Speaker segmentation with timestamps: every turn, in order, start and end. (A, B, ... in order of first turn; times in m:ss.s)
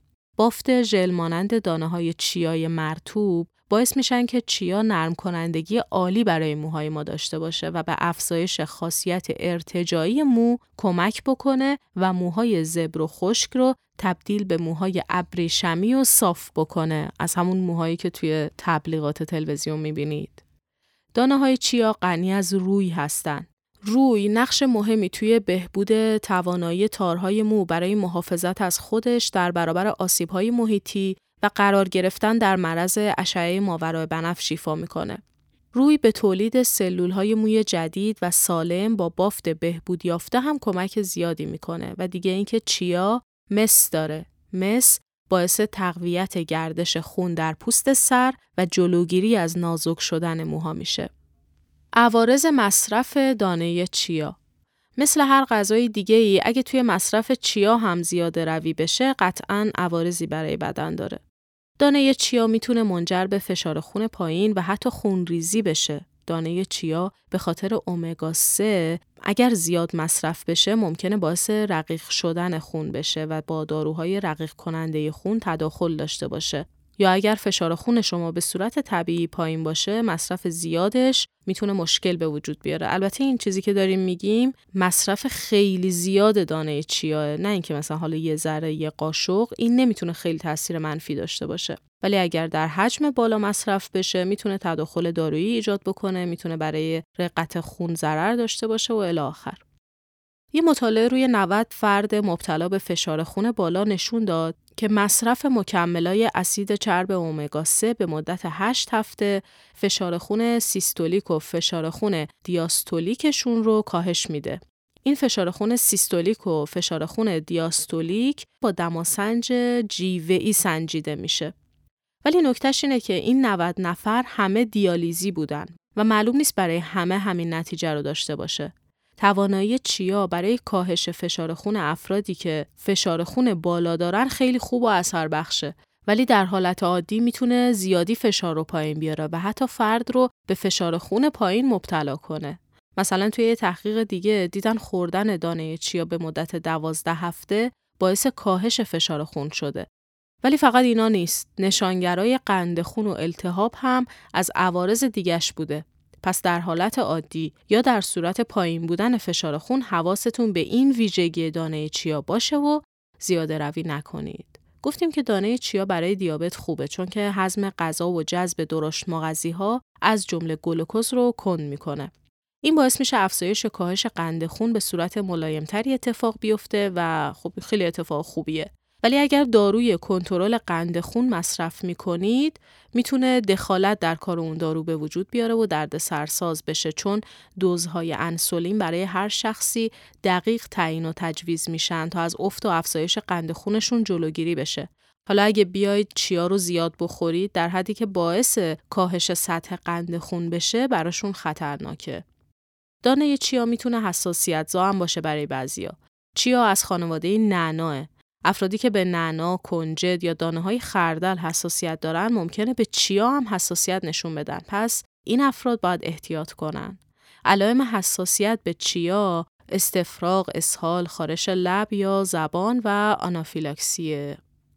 0:00.4-0:20.4 A
0:21.1-0:35.2 A
0:35.7-0:51.1 A
0:52.0-0:54.4 A
0:55.0-1:01.2 A
1:01.8-1:39.6 A
1:40.5-2:01.5 A
2:02.2-2:29.9 A
2:30.4-2:52.1 A
2:52.6-3:22.2 A
3:23.0-3:44.4 A